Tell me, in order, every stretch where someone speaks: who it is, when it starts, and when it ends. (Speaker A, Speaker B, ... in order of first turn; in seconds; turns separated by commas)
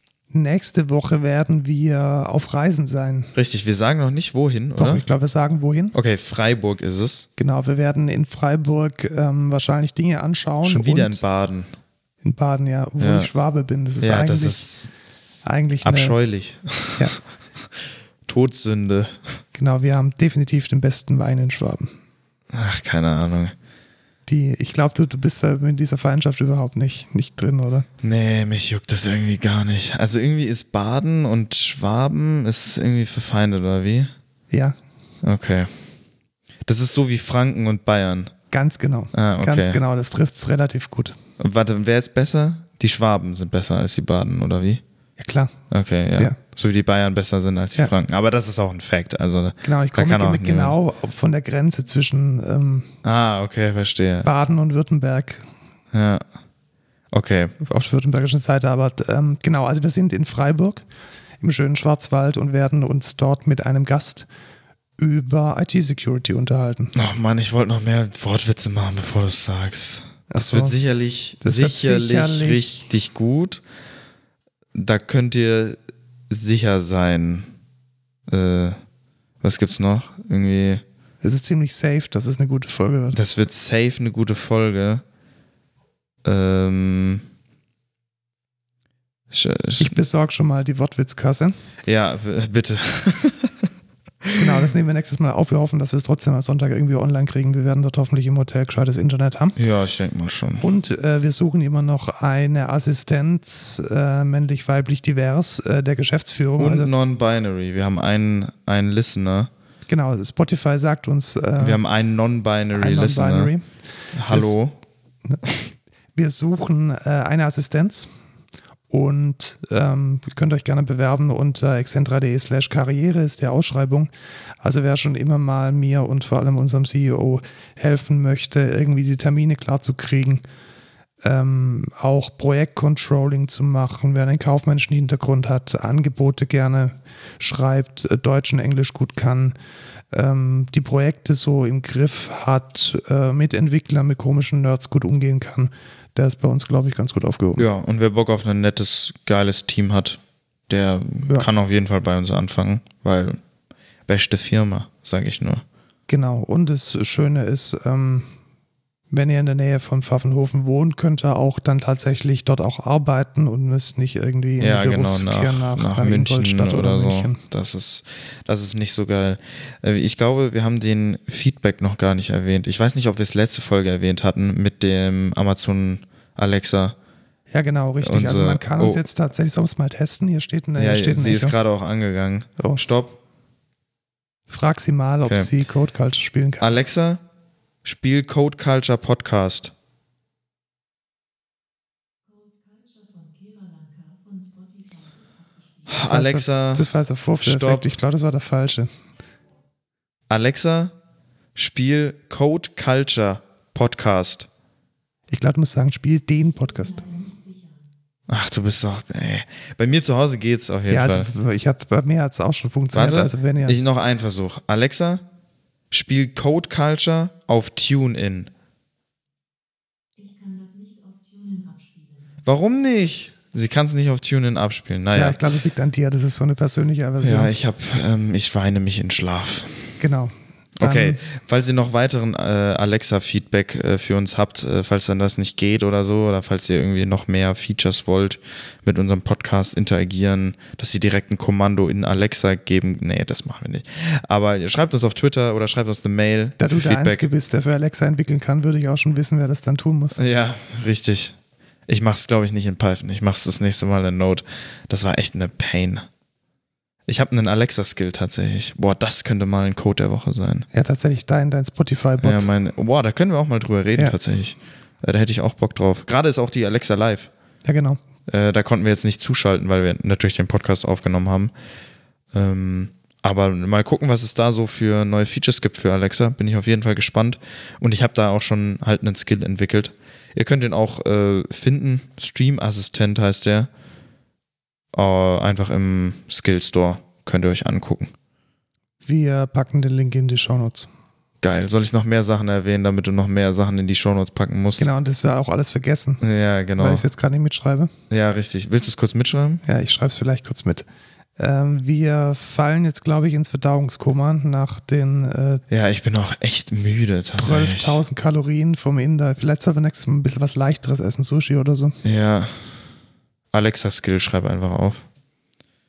Speaker A: 0.3-3.3, Speaker B: 3.4-5.0, Speaker A: 4.8-6.0, Speaker B: 5.9-7.3, Speaker A: 7.4-11.2, Speaker B: 10.6-11.7, Speaker A: 12.2-14.7, Speaker B: 13.0-13.3, Speaker B: 14.0-14.9, Speaker A: 15.4-16.2, Speaker B: 15.8-17.1, Speaker B: 18.3-19.2, Speaker A: 19.6-21.9, Speaker B: 22.5-23.5, Speaker A: 24.3-27.9, Speaker B: 28.0-34.1, Speaker A: 34.5-34.8, Speaker B: 35.2-35.8, Speaker B: 36.7-38.3, Speaker A: 38.5-41.2, Speaker B: 39.1-39.8, Speaker B: 41.4-44.8, Speaker A: 45.2-45.5, Speaker B: 45.7-50.8, Speaker A: 49.6-52.9, Speaker B: 53.0-54.3, Speaker A: 54.2-55.4, Speaker B: 55.9-56.2, Speaker B: 57.1-57.5, Speaker A: 57.6-60.8, Speaker A: 61.4-64.3, Speaker A: 65.0-66.9, Speaker B: 67.0-73.6, Speaker A: 70.3-70.8, Speaker A: 71.4-72.9, Speaker B: 74.8-75.8, Speaker B: 76.3-77.5, Speaker B: 78.3-78.8, Speaker B: 79.4-80.8, Speaker A: 81.2-83.2, Speaker B: 83.1-85.0, Speaker B: 86.2-87.2, Speaker B: 89.3-89.9, Speaker A: 89.8-91.6, Speaker B: 91.9-93.7, Speaker B: 94.2-94.6, Speaker A: 94.3-99.6, Speaker B: 99.6-100.6, Speaker A: 100.6-106.9, Speaker B: 106.6-109.5, Speaker A: 109.9-111.8, Speaker B: 111.6-113.5, Speaker A: 112.7-113.7, Speaker B: 114.1-114.8, Speaker A: 114.3-114.6, Speaker A: 116.2-118.1, Speaker A: 118.9-124.1, Speaker A: 124.6-130.4, Speaker A: 131.2-139.5, Speaker A: 140.1-147.7, Speaker B: 147.6-153.4, Speaker B: 154.1-155.6, Speaker A: 156.1-158.3, Speaker A: 159.1-167.4, Speaker B: 164.6-176.9, Speaker A: 177.5-181.5, Speaker B: 178.0-179.0, Speaker B: 180.8-183.2, Speaker A: 184.5-186.7, Speaker B: 185.2-185.5, Speaker B: 186.6-187.2, Speaker B: 187.8-189.7, Speaker C: 192.2-196.1, Speaker B: 195.9-196.9, Speaker A: 195.9-198.9, Speaker B: 197.4-197.9, Speaker B: 200.3-200.9, Speaker B: 201.6-204.5, Speaker A: 205.3-207.0, Speaker C: 206.4-207.9, Speaker B: 208.3-211.3, Speaker A: 210.9-213.8, Speaker B: 212.9-215.2, Speaker B: 215.9-218.5, Speaker C: 220.2-222.4, Speaker B: 222.4-225.4, Speaker A: 225.1-227.5, Speaker B: 227.2-229.9, Speaker A: 230.0-231.2, Speaker B: 230.8-247.2, Speaker A: 246.6-250.2, Speaker B: 250.2-251.4, Speaker B: 251.9-256.0, Speaker B: 257.1-260.7, Speaker A: 260.7-262.5, Speaker B: 262.2-267.3, Speaker A: 267.6-268.0, Speaker B: 268.3-271.5, Speaker B: 272.3-283.7, Speaker B: 284.9-288.1, Speaker A: 289.1-290.9, Speaker B: 291.4-294.9, Speaker A: 294.8-296.2, Speaker B: 296.2-297.1, Speaker A: 296.8-297.9, Speaker B: 298.1-299.6, Speaker A: 299.7-300.9, Speaker A: 301.4-305.6, Speaker B: 305.7-308.0, Speaker A: 307.4-311.9, Speaker B: 312.0-312.6, Speaker B: 313.5-315.1